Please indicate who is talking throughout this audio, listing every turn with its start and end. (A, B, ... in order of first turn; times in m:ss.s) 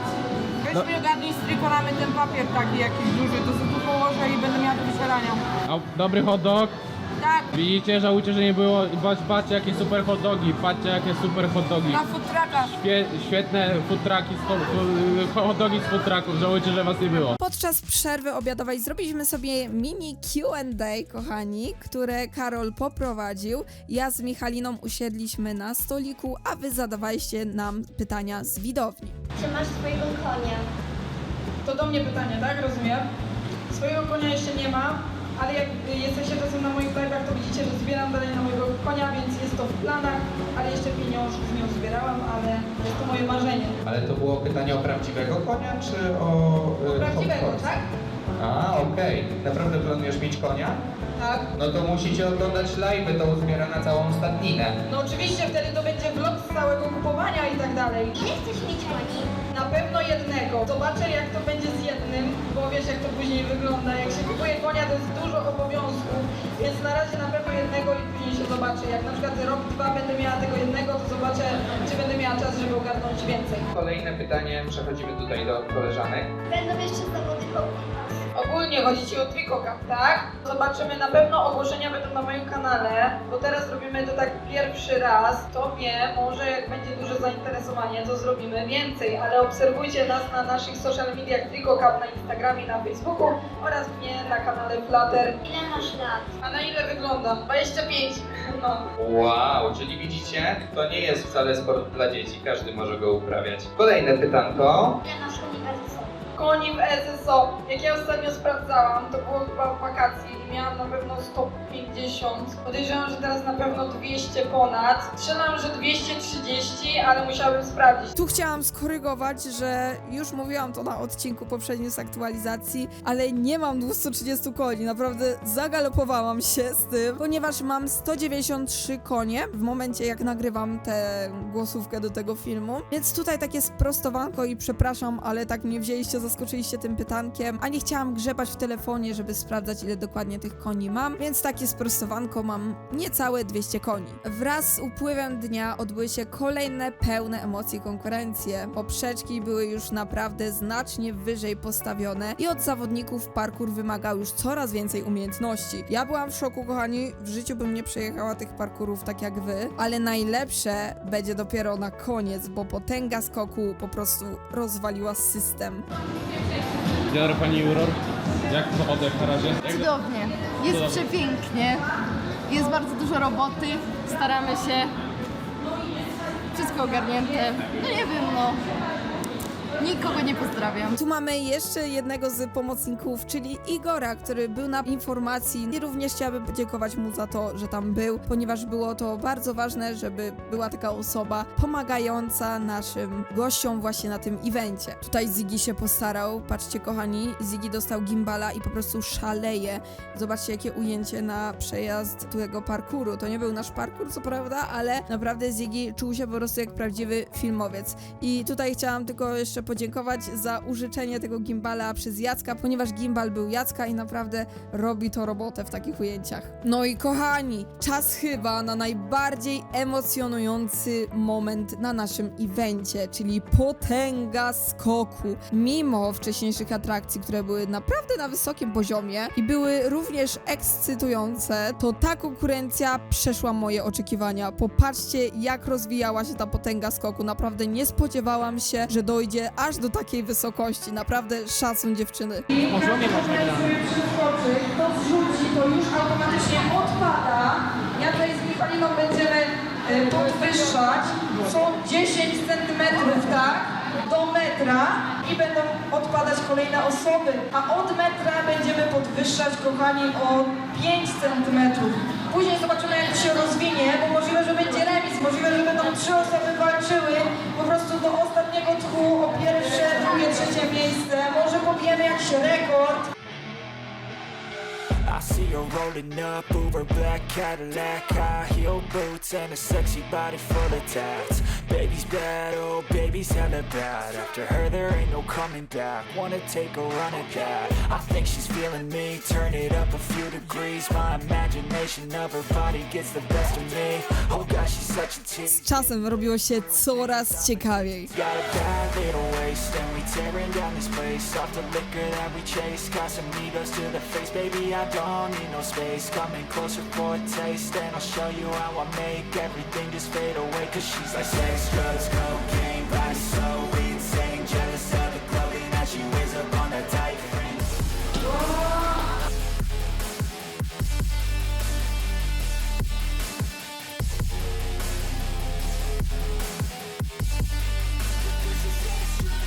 0:00.6-0:05.4 A
0:05.7-0:06.7 B
0:07.2-0:07.5 A
0:07.6-0:12.1 B
0:11.9-0:12.7 A
0:12.7-0:17.4 B
0:17.4-0:29.2 C
0:29.4-0:30.7 D
0:31.6-0:33.1 A
0:33.7-0:43.8 A
0:43.8-0:47.7 E
0:46.9-0:47.8 A
0:48.4-0:50.8 E
0:51.2-0:51.5 A
0:51.5-0:54.8 E
0:54.9-0:58.2 A
0:58.2-0:59.3 D
0:59.5-1:13.7 A
1:13.7-1:16.3 E
1:16.5-1:18.3 D
1:18.3-1:35.4 A
1:35.4-1:36.4 D
1:36.4-1:38.9 A
1:39.0-1:45.0 E
1:45.0-1:46.1 D
1:46.4-1:58.1 A
1:58.2-2:45.9 C
2:47.1-2:48.0 B
2:48.5-2:49.9 B
2:49.6-2:51.8 F
2:50.7-2:51.0 B
2:52.5-2:54.9 F
2:56.5-2:58.6 F
2:59.8-3:01.0 F
3:01.0-4:02.5 C
4:02.5-4:33.1 A
4:02.7-4:03.7 B
4:35.1-4:55.6 G
4:55.5-4:58.1 C
4:58.1-5:17.8 G